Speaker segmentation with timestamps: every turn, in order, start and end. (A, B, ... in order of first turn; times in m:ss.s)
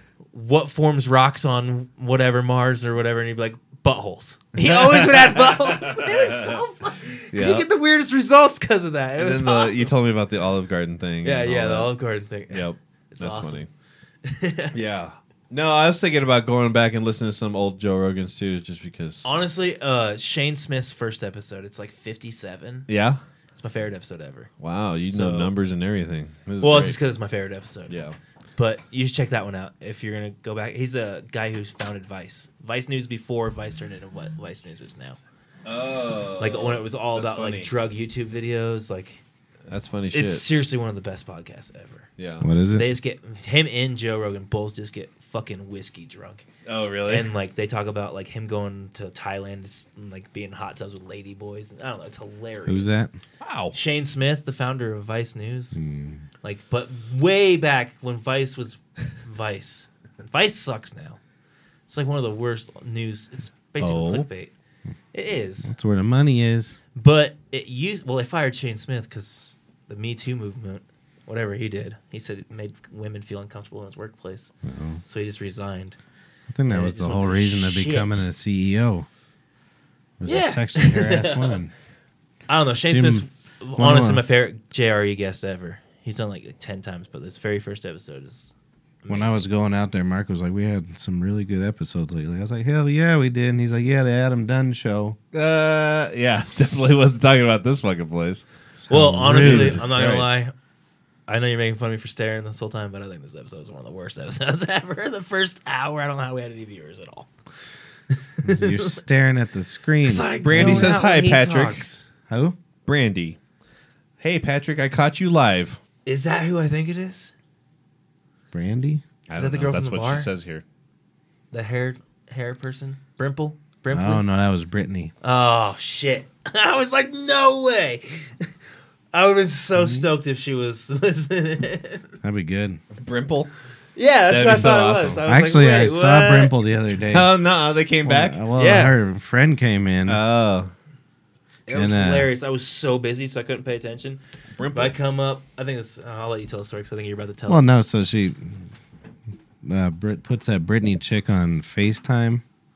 0:00.3-0:09.9 A
0:04.6-0:06.6 B
0:07.3-0:07.7 B
0:09.2-0:11.9 B
0:11.2-0:13.6 A
0:12.5-0:13.7 B
0:14.2-0:14.8 A
0:14.7-0:19.3 B
0:19.2-0:22.9 A
0:22.9-0:23.2 B
0:23.6-0:24.5 A
0:24.6-0:27.0 B
0:25.1-0:25.5 A
0:26.6-0:28.0 A
0:27.9-0:28.2 B
0:28.6-0:35.2 A
0:35.6-0:37.7 B
0:36.4-0:39.2 A
0:39.7-0:40.4 B
0:40.1-0:42.1 A
0:42.2-0:42.4 B
0:42.4-0:42.9 C
0:42.7-0:46.5 A
0:46.7-0:47.3 B
0:47.1-0:53.0 A
0:52.7-0:53.2 C
0:53.4-0:53.8 B
0:53.7-0:55.8 A
0:55.7-0:56.2 C
0:56.4-1:01.2 A
1:01.9-1:04.5 A
1:03.8-1:04.3 B
1:05.1-1:05.7 A
1:05.6-1:06.8 C
1:07.0-1:16.0 A
1:14.6-1:15.0 C
1:16.5-1:19.1 C
1:16.7-1:18.2 A
1:20.2-1:21.7 C
1:20.2-1:21.6 A
1:22.5-1:29.5 A
1:22.9-1:23.2 C
1:23.8-1:24.2 C
1:29.1-1:35.2 C
1:35.3-1:38.4 B
1:38.8-1:39.9 C
1:38.9-1:40.5 A
1:39.2-1:40.4 B
1:41.3-1:47.3 A
1:48.4-1:49.0 A
1:48.4-1:51.1 C
1:50.0-1:52.0 A
1:50.4-1:51.9 B
1:52.3-1:52.6 C
1:52.9-1:53.4 B
1:54.2-1:55.8 B
1:56.0-1:57.3 A
1:58.5-1:59.0 C
1:59.3-2:00.6 B
1:59.4-2:00.3 A
2:01.5-2:04.2 A
2:03.9-2:05.1 C
2:05.2-2:08.5 A
2:09.1-2:12.0 A
2:12.2-2:12.8 C
2:13.0-2:13.5 B
2:14.0-2:16.6 A
2:14.3-2:15.2 B
2:15.2-2:17.3 C
2:17.1-2:18.4 B
2:18.0-2:20.2 C
2:18.5-2:19.0 A
2:20.1-2:20.7 B
2:21.7-2:24.2 A
2:21.7-2:22.3 C
2:24.6-2:25.0 B
2:24.7-2:27.7 A
2:27.5-2:28.7 C
2:29.6-2:32.4 C